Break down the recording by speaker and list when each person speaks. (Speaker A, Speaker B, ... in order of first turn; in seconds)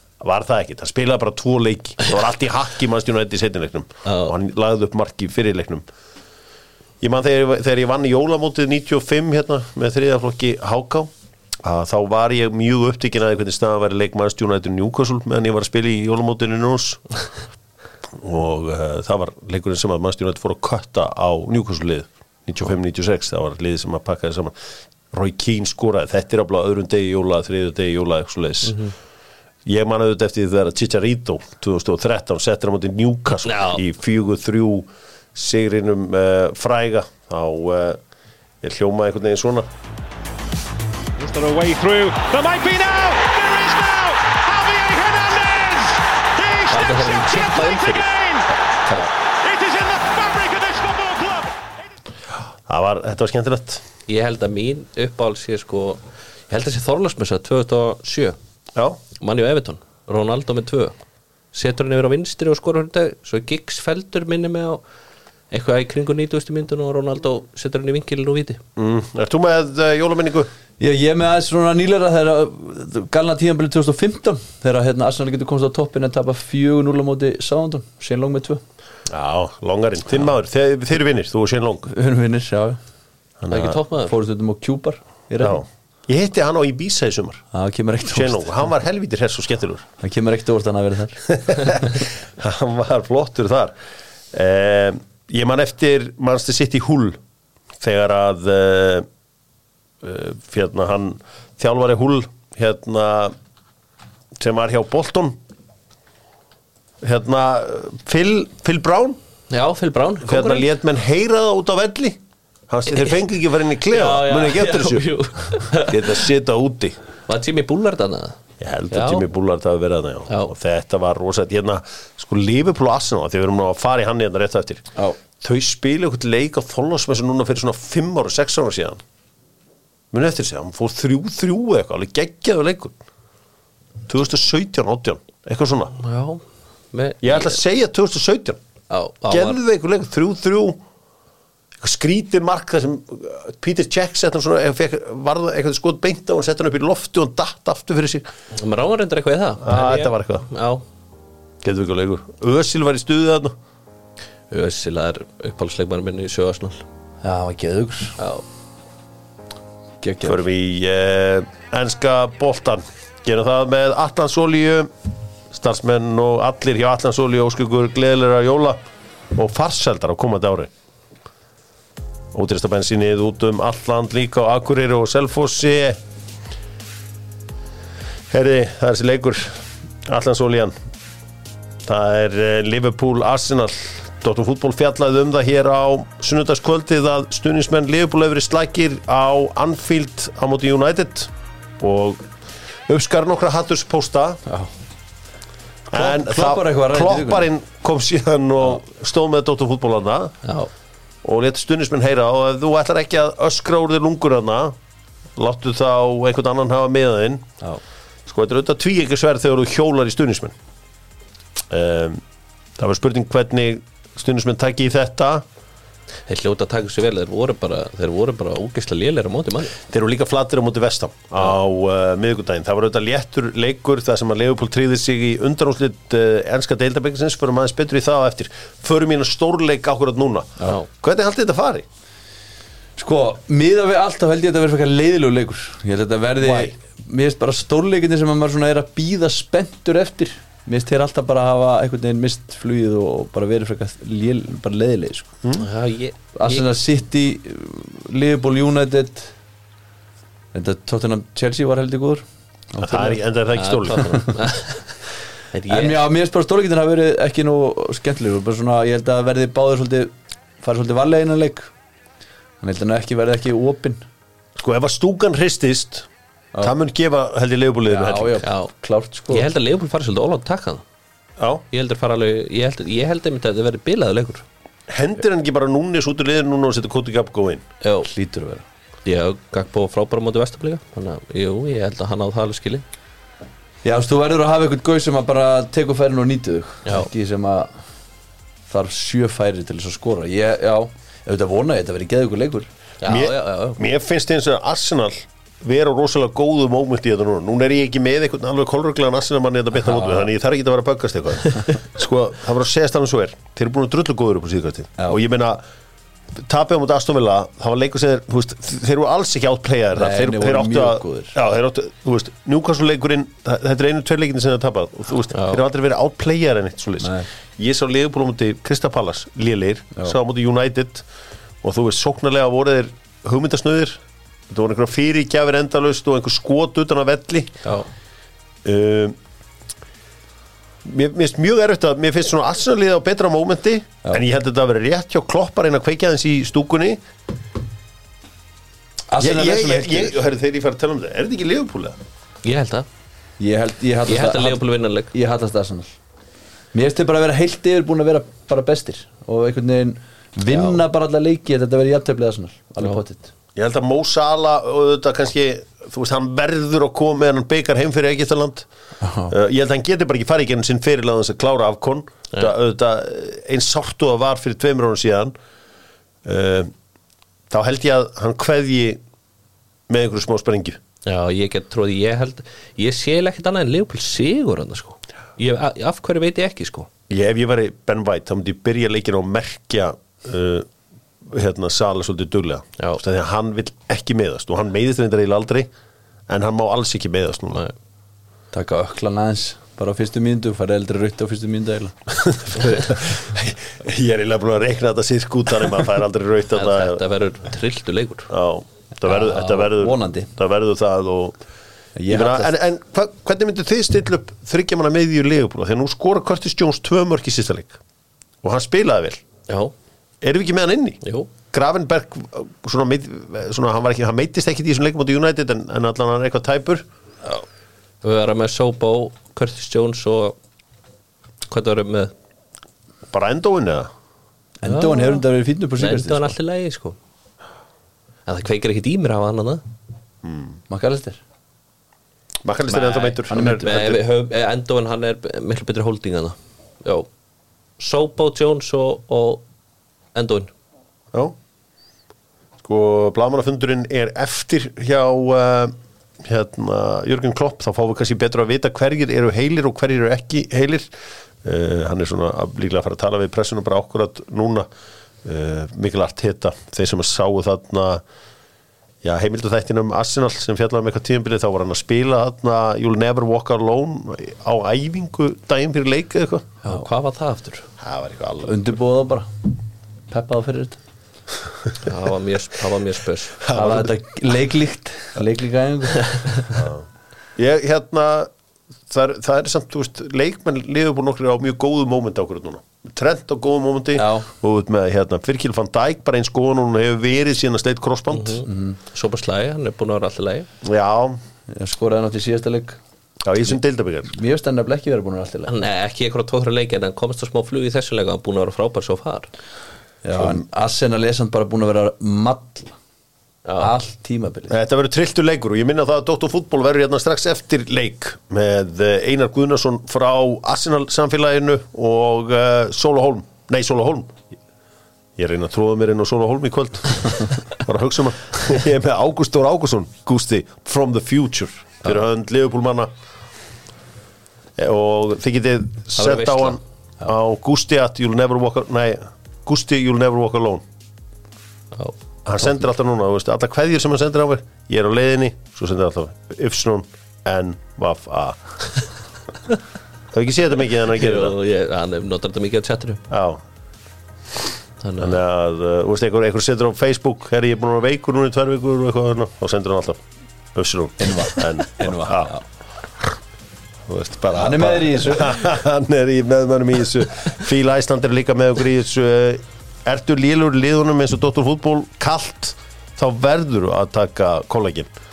Speaker A: 0.2-5.8, 7.0-11.1, 11.6-17.0, 18.2-24.5, 25.1-28.8, 29.6-38.0, 38.6-39.7, 52.7-53.8, 58.8-59.0, 68.8-70.5, 79.1-81.9, 83.4-83.8, 85.4-87.4, 88.1-89.8, 91.3-93.7, 94.3-97.2, 97.8-99.1, 100.0-103.3, 104.4-105.4, 107.0-109.2, 110.2-115.1, 115.8-117.0, 118.6-124.8, 125.4-129.0, 130.1-132.9, 134.1-135.9, 137.2-138.6, 139.3-140.8, 141.8-148.3, 149.6-150.4, 151.6-153.5, 160.2-164.9, 165.5-168.8, 169.3-170.7, 172.3-176.0, 178.3-180.7, 181.8-192.2, 192.9-194.4, 195.9-200.4, 201.2-204.8, 205.3-207.5, 208.2-210.5, 211.7-212.2, 212.8-215.4, 219.8-231.8, 236.4-236.7, 252.8-254.3, 264.6-266.1, 266.6-268.4, 271.4-271.6, 274.9-277.6, 293.0-305.6, 306.3-321.0, 321.6-327.5, 328.6-329.1, 330.8-337.0, 339.2-342.0, 353.6-358.7, 359.3-365.3, 366.2-366.7, 367.5-369.0, 369.9-370.8, 377.1-380.7, 381.2-385.7, 386.3-387.6, 392.2-397.0, 398.3-401.4, 402.1-407.8, 408.4-409.2, 410.2-416.9, 423.1-423.9, 430.2-430.6, 432.4-434.0, 442.6-450.9, 451.4-454.7, 455.2-458.0, 459.0-466.5, 467.8-468.6, 473.4-473.9, 476.5-476.8, 477.4-478.3, 478.9-488.4, 490.6-491.2, 493.2-494.1, 504.5-514.1, 515.2-522.9, 524.6-530.6, 532.2-538.4, 540.1-541.3, 543.1-543.4, 545.0-550.0, 550.5-552.4, 553.9-564.9
Speaker B: 4.0-4.3, 28.6-28.9, 33.4-33.8, 46.7-48.1, 54.1-58.4, 59.2-60.9, 61.5-64.8, 65.5-68.6, 83.5-84.1, 109.5-110.7, 113.9-116.3, 117.3-118.4, 118.9-119.2, 136.0-136.4, 136.9-137.6, 138.9-139.6, 148.5-150.8, 154.5-156.8, 158.2-158.4, 216.3-219.8, 245.6-246.6, 253.5-254.9, 255.5-256.1, 268.4-268.7, 269.3-270.8, 271.7-274.4, 277.8-278.1, 279.0-282.8, 293.0-293.8, 315.3-315.6, 342.4-342.9, 344.1-345.1, 350.5-350.8, 371.1-376.9, 396.5-398.3, 409.5-409.7, 411.0-411.3, 418.0-420.4, 421.5-422.1, 424.6-425.2, 425.8-427.0, 428.2-429.6, 432.7-437.1, 437.8-439.4, 440.1-440.5, 466.6-467.7, 471.8-473.4, 476.1-476.4, 488.1-490.5, 495.5-499.3, 503.4-503.7, 526.0-526.6, 540.9-543.0, 544.8-545.2
Speaker C: 41.2-51.7
Speaker D: 70.8-78.6, 81.8-82.8, 84.0-85.6, 87.5-88.5, 90.0-91.2, 157.2-158.2, 160.0-160.4, 195.9-197.5, 233.0-245.3, 246.3-249.3, 250.5-253.2, 255.7-261.7, 262.6-264.0, 267.9-269.5, 278.1-278.6, 283.8-287.7, 288.7-292.7, 299.9-300.2, 309.9-311.3, 317.0-317.3, 339.1-340.2, 343.4-345.9, 346.7-353.3, 359.0-359.3, 388.5-391.9, 399.0-400.3, 401.9-402.5, 424.6-426.3, 430.7-431.2, 433.3-434.0, 468.4-469.5, 470.1-470.8, 473.5-476.2, 483.9-484.3, 488.4-488.8, 491.5-492.8, 494.1-495.5, 500.0-502.7, 503.6-504.5, 551.0-552.4, 554.4-555.5